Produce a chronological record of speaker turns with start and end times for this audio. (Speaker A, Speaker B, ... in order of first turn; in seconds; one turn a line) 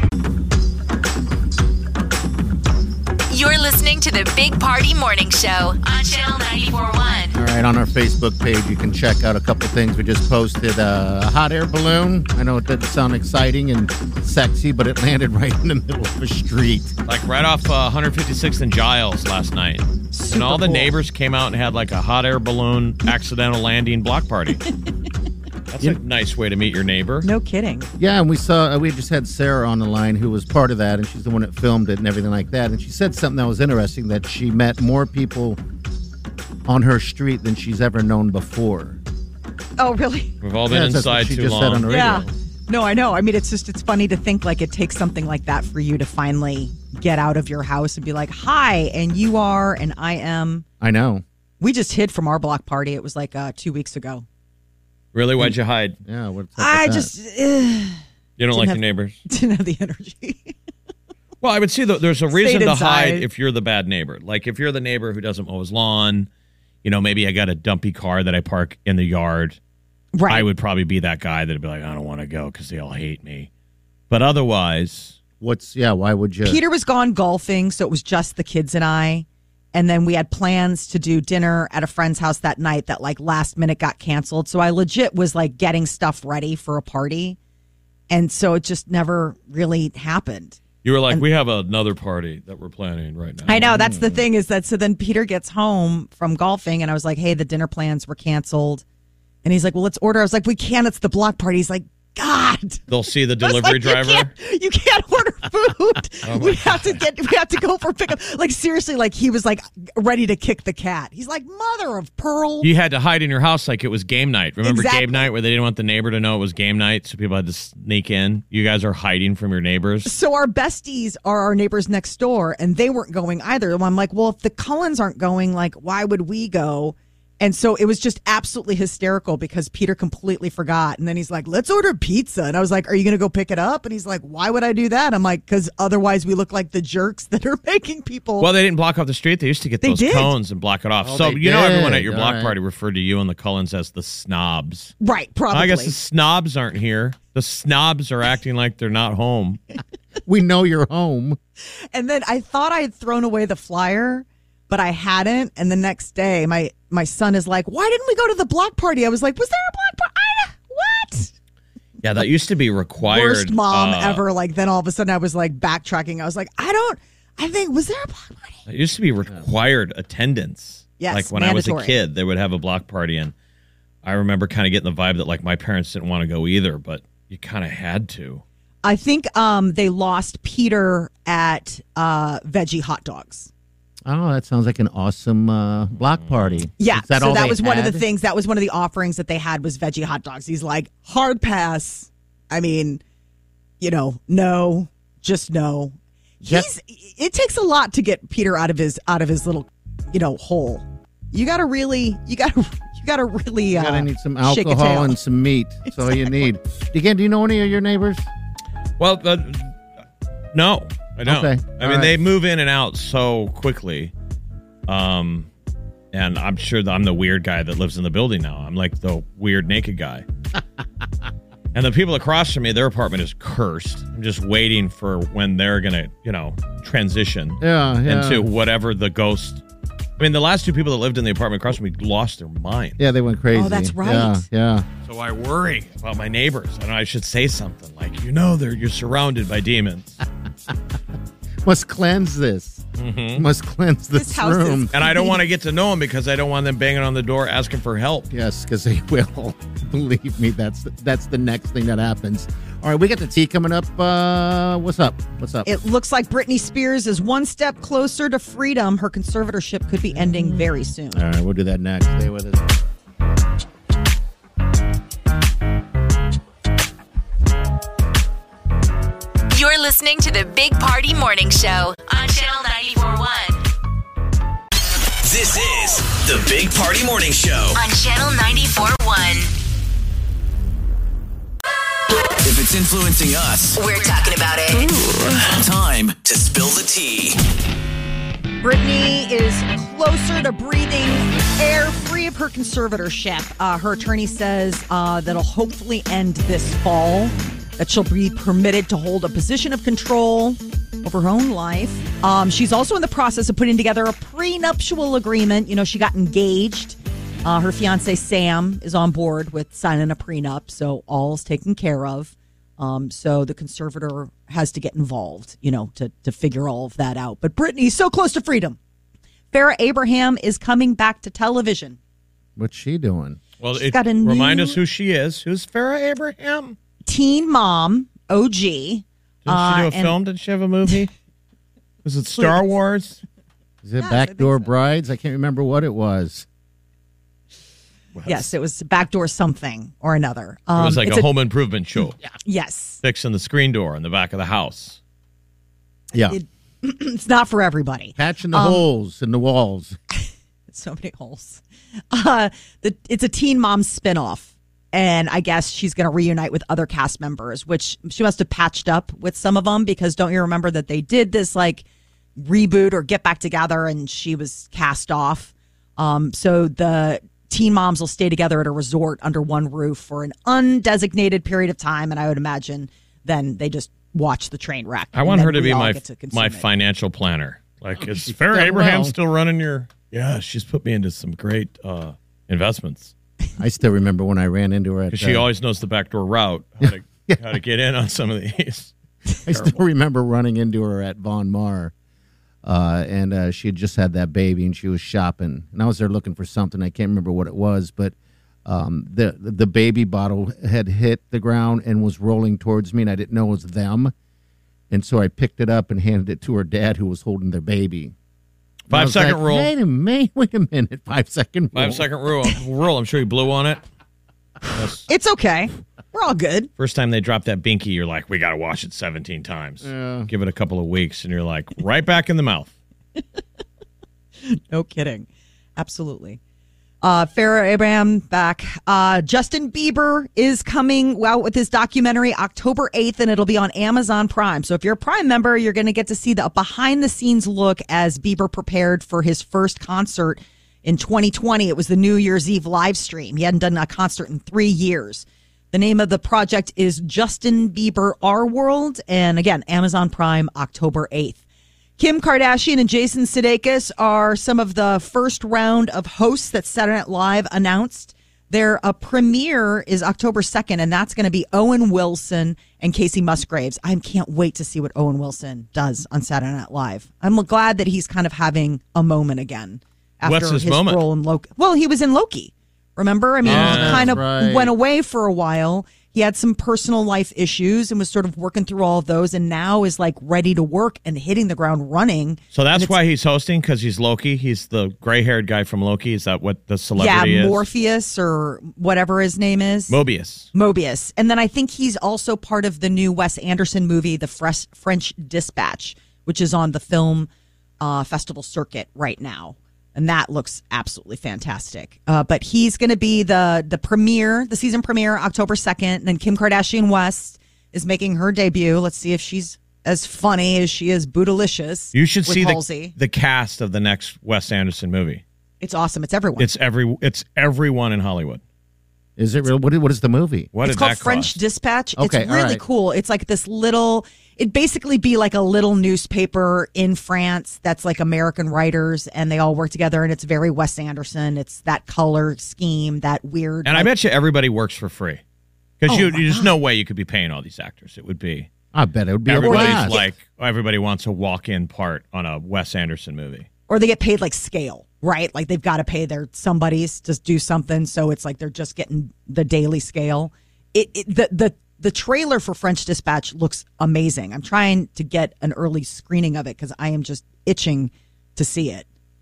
Speaker A: 3.3-7.3
Speaker B: 7.3-16.9
Speaker C: 17.1-24.6
Speaker D: 20.1-20.9
Speaker C: 25.7-27.3
Speaker D: 27.2-27.9
Speaker B: 28.0-35.6
Speaker B: 36.6-39.0
Speaker D: 39.8-40.3
Speaker C: 40.4-42.2
Speaker B: 40.7-42.3
Speaker D: 41.9-50.6
Speaker B: 50.8-51.2
Speaker D: 51.6-54.2
Speaker C: 55.1-56.0
Speaker B: 56.0-57.1
Speaker D: 56.6-58.0
Speaker C: 58.4-59.2
Speaker D: 58.5-60.5
Speaker C: 61.4-66.3
Speaker D: 62.3-63.2
Speaker C: 66.8-69.6
Speaker D: 70.1-70.5
Speaker C: 70.3-73.5
Speaker C: 74.1-75.2
Speaker B: 75.4-76.6
Speaker D: 76.4-87.4
Speaker D: 88.1-90.6
Speaker C: 90.8-93.8
Speaker D: 93.5-98.8
Speaker B: 93.7-94.2
Speaker D: 99.4-102.8
Speaker C: 102.9-104.3
Speaker D: 103.4-112.7
Speaker C: 106.2-107.0
Speaker C: 112.6-120.1
Speaker D: 114.6-115.3
Speaker D: 120.0-138.5
Speaker C: 138.4-144.9
Speaker D: 139.8-140.3
Speaker B: 141.0-142.5
Speaker D: 145.0-145.9
Speaker C: 145.5-149.6
Speaker B: 150.2-151.4
Speaker D: 151.9-161.3
Speaker C: 162.0-164.2
Speaker D: 163.1-168.6
Speaker C: 168.7-173.3
Speaker D: 171.0-171.9
Speaker C: 174.0-178.4
Speaker D: 178.8-183.5
Speaker B: 184.0-188.0
Speaker C: 186.2-186.7
Speaker D: 186.8-193.0
Speaker D: 193.8-205.2
Speaker B: 203.7-208.2
Speaker D: 206.0-206.3
Speaker C: 209.0-209.7
Speaker C: 210.5-214.1
Speaker B: 211.2-212.1
Speaker C: 214.9-215.5
Speaker C: 216.1-220.2
Speaker C: 221.7-229.6
Speaker B: 227.6-228.4
Speaker C: 230.2-233.0
Speaker B: 233.0-234.8
Speaker D: 233.5-234.4
Speaker C: 235.1-240.2
Speaker B: 241.6-244.9
Speaker C: 243.0-243.4
Speaker D: 244.2-245.3
Speaker C: 244.9-248.3
Speaker B: 248.3-255.7
Speaker D: 255.6-261.2
Speaker B: 261.1-262.6
Speaker A: 269.5-273.6
Speaker E: 275.2-277.8
Speaker A: 277.8-279.5
Speaker E: 282.4-283.8
Speaker A: 283.8-284.9
Speaker E: 285.2-287.4
Speaker D: 288.6-318.8
Speaker D: 319.5-322.0
Speaker B: 322.6-323.4
Speaker C: 323.6-326.8
Speaker D: 323.7-324.8
Speaker D: 327.1-330.1
Speaker C: 329.4-331.1
Speaker C: 332.0-333.2
Speaker B: 333.8-336.4
Speaker D: 334.0-334.7
Speaker C: 338.1-338.5
Speaker D: 338.2-341.3
Speaker C: 340.8-342.2
Speaker D: 342.4-343.0
Speaker C: 343.0-345.0
Speaker D: 346.2-348.9
Speaker B: 348.2-350.0
Speaker D: 350.1-361.8
Speaker D: 362.4-376.7
Speaker C: 375.1-383.1
Speaker B: 378.2-379.1
Speaker B: 383.6-385.4
Speaker C: 385.1-388.9
Speaker B: 386.8-387.4
Speaker B: 389.4-391.9
Speaker C: 389.5-389.8
Speaker B: 392.6-404.1
Speaker B: 404.9-408.1
Speaker B: 408.9-412.1
Speaker C: 408.9-409.7
Speaker C: 411.7-413.8
Speaker C: 414.7-415.0
Speaker D: 415.1-416.7
Speaker C: 416.8-422.7
Speaker B: 419.8-420.3
Speaker D: 424.4-426.4
Speaker D: 427.0-451.4
Speaker D: 452.0-482.9
Speaker C: 470.2-471.0
Speaker C: 473.4-474.2
Speaker B: 473.4-474.7
Speaker C: 482.5-487.6
Speaker D: 486.9-489.9
Speaker C: 489.9-490.5
Speaker D: 490.5-512.9
Speaker C: 511.9-515.2
Speaker D: 515.6-516.5
Speaker C: 516.4-518.4
Speaker B: 519.2-520.5
Speaker C: 520.5-521.4
Speaker D: 520.6-533.9
Speaker B: 522.0-522.6
Speaker C: 533.6-535.2
Speaker C: 535.8-538.5
Speaker D: 535.9-536.5
Speaker B: 538.7-540.0
Speaker C: 539.3-543.5
Speaker D: 539.4-540.1
Speaker D: 543.7-558.9